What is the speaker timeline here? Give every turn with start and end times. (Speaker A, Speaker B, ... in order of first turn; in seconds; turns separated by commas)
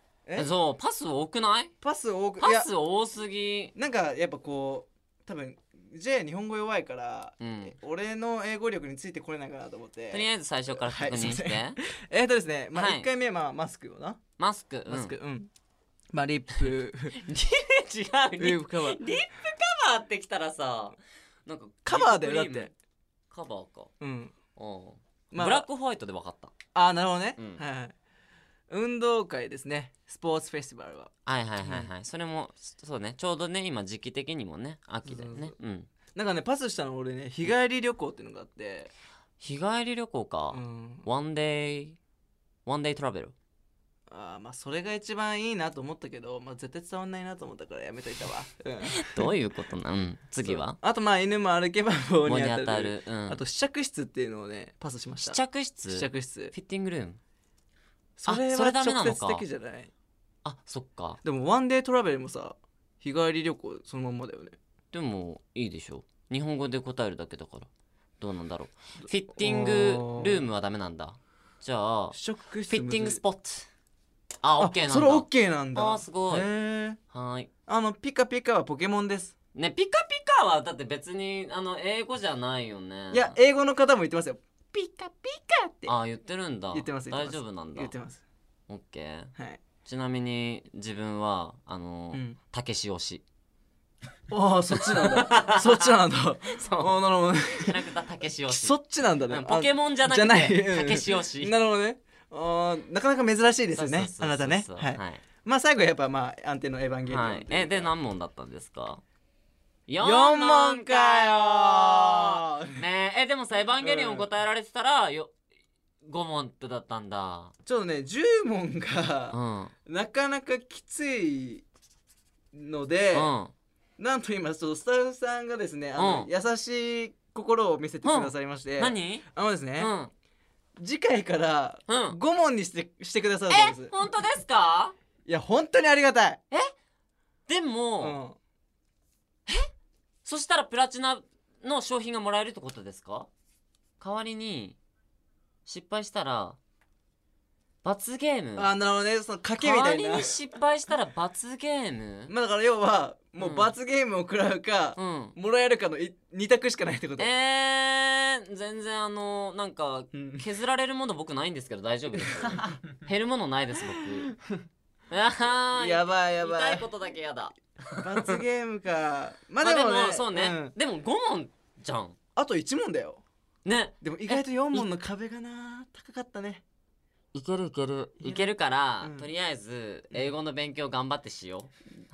Speaker A: 0.2-0.5, Speaker B: 0.3-1.7, Speaker A: 1.8-2.7, Speaker B: 2.4-3.7, Speaker A: 3.8-14.2, Speaker B: 7.4-7.7, Speaker B: 10.1-11.8, Speaker B: 12.7-13.1, Speaker B: 14.4-15.1, Speaker A: 14.9-15.5, Speaker A: 16.1-17.2, Speaker B: 17.2-22.7, Speaker A: 18.4-19.0, Speaker A: 21.9-22.7, Speaker B: 23.3-23.9, Speaker A: 24.0-24.3, Speaker B: 24.6-26.5, Speaker A: 25.3-25.7, Speaker A: 26.7-27.9, Speaker A: 28.7-31.9, Speaker B: 31.2-35.9, Speaker A: 35.0-35.5, Speaker A: 36.1-38.9, Speaker B: 39.4-42.0, Speaker A: 40.5-41.1, Speaker B: 42.6-43.3, Speaker A: 44.1-49.3, Speaker B: 48.8-50.8, Speaker A: 50.4-56.5, Speaker B: 52.2-53.4, Speaker B: 55.2-57.2, Speaker A: 58.2-59.9, Speaker B: 58.3-59.4, Speaker B: 60.4-61.2, Speaker A: 61.2-64.5, Speaker B: 64.9-67.7, Speaker B: 68.2-73.7, Speaker A: 69.4-70.5, Speaker A: 72.1-73.2, Speaker B: 74.4-76.5, Speaker A: 74.6-77.0, Speaker B: 77.1-77.5, Speaker A: 77.7-79.3, Speaker B: 79.5-83.4, Speaker A: 83.1-85.9, Speaker B: 85.9-87.9, Speaker A: 86.7-88.2, Speaker B: 88.7-89.3, Speaker B: 89.8-93.2, Speaker A: 92.1-92.4, Speaker A: 94.3-97.9, Speaker B: 94.8-95.9, Speaker B: 96.5-97.0, Speaker B: 97.5-101.5, Speaker A: 98.5-107.9, Speaker B: 103.7-105.2, Speaker B: 107.1-109.0, Speaker B: 109.9-115.3, Speaker A: 110.0-112.8, Speaker A: 113.8-114.3, Speaker B: 116.0-117.5, Speaker A: 117.6-121.6, Speaker B: 119.3-119.7, Speaker A: 122.5-123.3, Speaker B: 123.1-123.5, Speaker A: 124.0-129.9, Speaker B: 125.9-126.3, Speaker B: 128.0-129.2, Speaker B: 129.8-130.1, Speaker A: 130.8-133.9, Speaker B: 131.9-132.2, Speaker B: 133.5-134.9, Speaker A: 135.2-136.4, Speaker B: 137.5-138.2, Speaker A: 138.0-138.4, Speaker B: 140.2-143.3, Speaker B: 144.0-144.8, Speaker B: 145.7-146.6, Speaker B: 147.8-148.7, Speaker A: 148.6-150.3, Speaker B: 149.6-152.3, Speaker A: 152.3-157.3, Speaker B: 153.4-153.7, Speaker B: 154.9-155.3, Speaker B: 157.2-164.3, Speaker A: 160.1-160.4, Speaker B: 165.1-168.4, Speaker A: 165.7-166.9, Speaker A: 168.0-170.7, Speaker B: 169.6-172.2, Speaker A: 172.3-173.2, Speaker B: 173.6-174.9, Speaker A: 174.0-176.6, Speaker B: 177.3-181.7, Speaker A: 178.2-179.3